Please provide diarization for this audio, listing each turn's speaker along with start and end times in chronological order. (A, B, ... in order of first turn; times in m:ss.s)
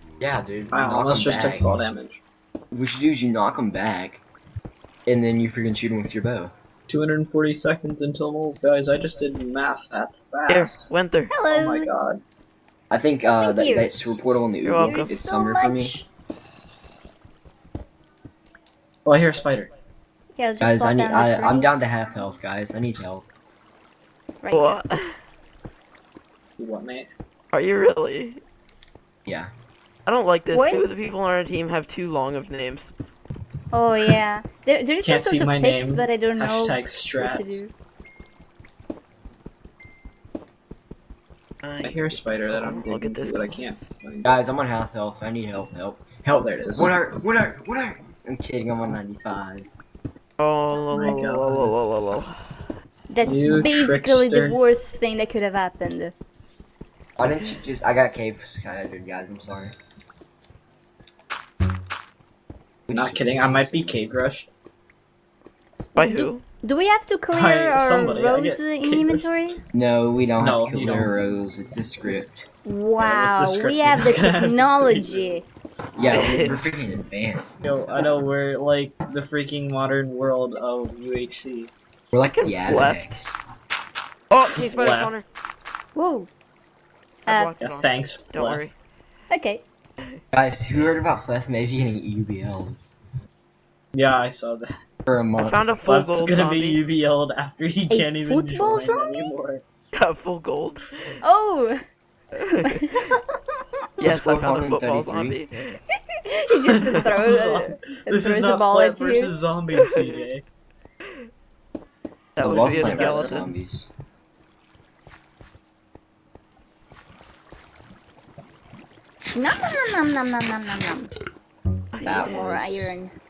0:00.2-0:01.8 A
0:00.7-0:02.2 B
0:02.7-0:04.2 A
0:05.1-0:06.5 A
0:06.9-0:10.9 B
0:10.5-0:11.3 C
0:11.3-0:11.9 D
0:11.5-0:12.2 B
0:12.9-0:16.0 A
0:13.4-0:13.9 D
0:14.6-0:15.2 C
0:14.7-0:16.0 D
0:19.0-0:19.7 B
0:20.4-0:21.9 D
0:20.6-0:23.2 A
0:24.4-0:24.8 D
0:24.5-0:25.2 C
0:26.6-0:27.1 B
0:27.5-0:28.4 C
0:30.1-0:32.9 C
0:30.5-0:30.9 D
0:33.7-0:37.7 D
0:35.0-0:37.6 B
0:41.6-0:43.6 C
0:41.8-0:44.3 B
0:44.2-0:49.7 A
0:46.3-0:47.0 B
0:50.4-0:52.6 C
0:50.9-0:51.7 B
0:53.1-0:56.1 D
0:53.2-0:54.6 B
0:57.2-0:59.8 A
1:02.9-1:04.0 A
1:02.9-1:04.5 B
1:05.8-1:09.6 D
1:06.0-1:06.4 C
1:07.3-1:09.2 B
1:09.7-1:12.5 A
1:10.4-1:11.2 B
1:12.6-1:15.4 D
1:13.0-1:15.5 B
1:16.0-1:18.0 A
1:16.1-1:16.6 C
1:17.6-1:21.7 B
1:22.1-1:23.4 A
1:22.4-1:23.2 C
1:24.3-1:25.2 C
1:24.5-1:25.1 B
1:26.0-1:26.3 D
1:27.3-1:28.7 C
1:27.6-1:28.6 B
1:29.3-1:29.6 D
1:30.3-1:32.8 A
1:34.0-1:34.8 B
1:35.1-1:35.6 A
1:35.4-1:36.8 C
1:35.8-1:39.6 B
1:37.9-1:39.3 D
1:39.9-1:41.1 C
1:41.2-1:41.8 D
1:42.4-1:42.9 C
1:42.5-1:43.6 D
1:44.0-1:45.8 C
1:44.0-1:45.4 A
1:46.1-1:49.3 D
1:46.6-1:50.4 B
1:49.9-1:50.2 C
1:52.4-1:53.5 C
1:52.4-1:53.9 A
1:52.5-1:53.4 B
1:59.4-2:01.1 D
2:01.9-2:02.4 C
2:02.0-2:02.9 A
2:02.1-2:03.1 D